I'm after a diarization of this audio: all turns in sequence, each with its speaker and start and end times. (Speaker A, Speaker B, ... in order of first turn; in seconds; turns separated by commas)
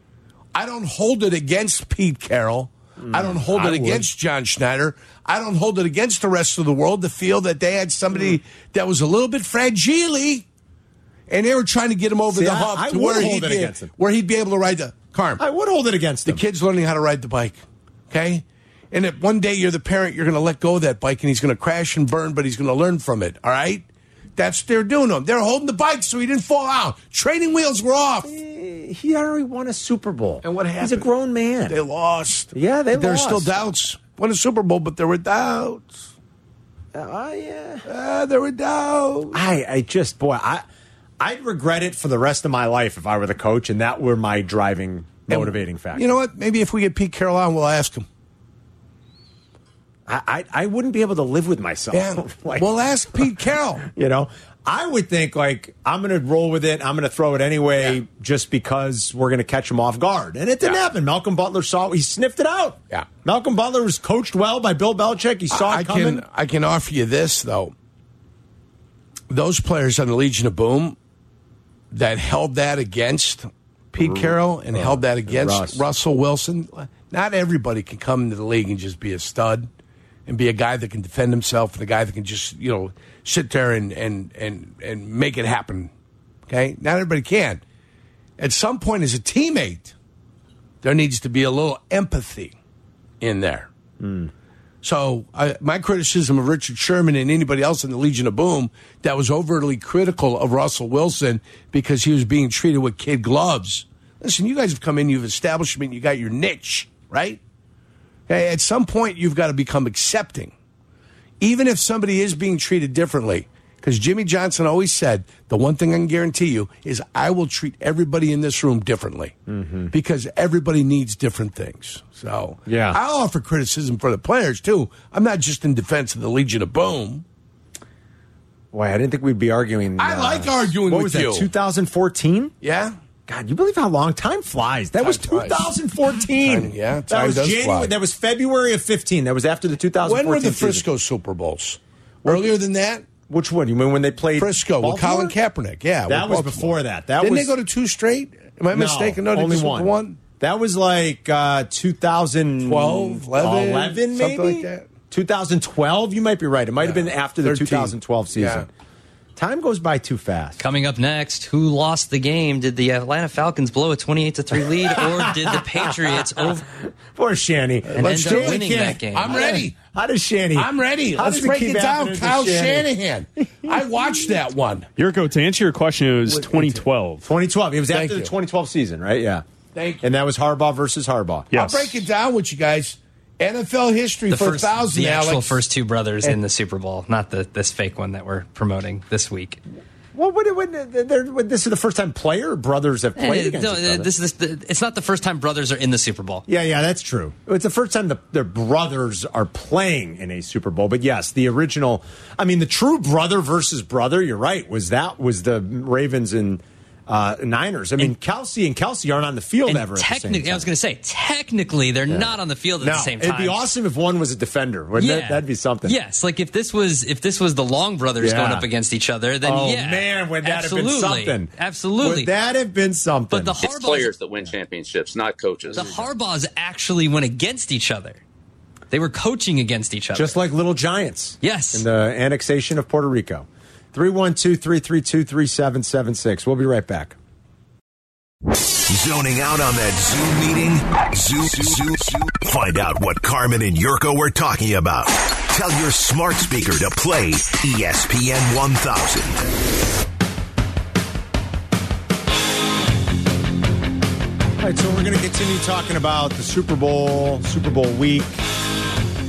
Speaker A: 0.5-10.4, Speaker B: 3.0-4.1, Speaker A: 11.3-15.4, Speaker B: 12.3-13.9, Speaker B: 15.4-16.4, Speaker A: 16.2-23.8, Speaker A: 24.4-28.3, Speaker B: 28.2-31.8, Speaker A: 30.4-31.1, Speaker A: 31.7-36.0, Speaker B: 32.5-33.6, Speaker B: 36.9-37.8, Speaker A: 37.8-39.4, Speaker B: 39.3-40.6, Speaker B: 41.2-46.0, Speaker A: 45.3-48.0, Speaker B: 50.1-52.7, Speaker A: 51.9-53.9, Speaker B: 53.9-66.2, Speaker A: 65.5-67.7, Speaker A: 69.3-71.0, Speaker A: 71.9-79.7, Speaker B: 74.0-75.8, Speaker A: 80.3-85.9, Speaker A: 86.5-87.6, Speaker A: 88.4-89.9, Speaker A: 90.8-92.5, Speaker A: 93.2-93.7, Speaker B: 94.0-94.3, Speaker A: 94.8-107.4, Speaker A: 108.3-110.5, Speaker A: 111.4-119.4, Speaker B: 119.5-119.9, Speaker A: 119.9-127.2, Speaker B: 122.7-123.0, Speaker B: 128.7-132.5, Speaker A: 130.0-131.5, Speaker A: 132.6-132.9, Speaker B: 133.3-140.8, Speaker A: 135.0-135.7, Speaker A: 136.4-137.9, Speaker A: 140.0-143.0, Speaker B: 143.3-145.3, Speaker A: 144.4-150.2, Speaker B: 146.1-147.5, Speaker B: 148.7-158.7, Speaker A: 152.6-154.9, Speaker A: 156.8-158.7, Speaker B: 159.3-160.6, Speaker C: 160.6-166.7, Speaker B: 164.9-166.5, Speaker B: 167.1-172.9, Speaker A: 167.9-169.8, Speaker C: 167.9-169.5, Speaker A: 170.5-174.9, Speaker D: 175.0-177.2, Speaker A: 176.3-176.8, Speaker B: 177.2-179.4, Speaker A: 177.9-178.3, Speaker A: 179.7-180.1, Speaker B: 180.0-181.6, Speaker D: 181.5-181.8, Speaker A: 181.5-185.6, Speaker C: 184.3-189.6, Speaker B: 190.1-194.1, Speaker C: 193.2-196.4, Speaker B: 196.5-210.7, Speaker C: 209.7-213.6, Speaker B: 212.1-215.9, Speaker C: 215.0-222.3, Speaker B: 218.2-218.7, Speaker B: 219.4-223.6, Speaker C: 223.3-224.1, Speaker E: 223.6-225.9, Speaker C: 225.7-228.2, Speaker C: 228.9-230.4, Speaker B: 230.1-237.2, Speaker C: 231.4-231.8, Speaker F: 238.9-249.4, Speaker B: 254.6-258.4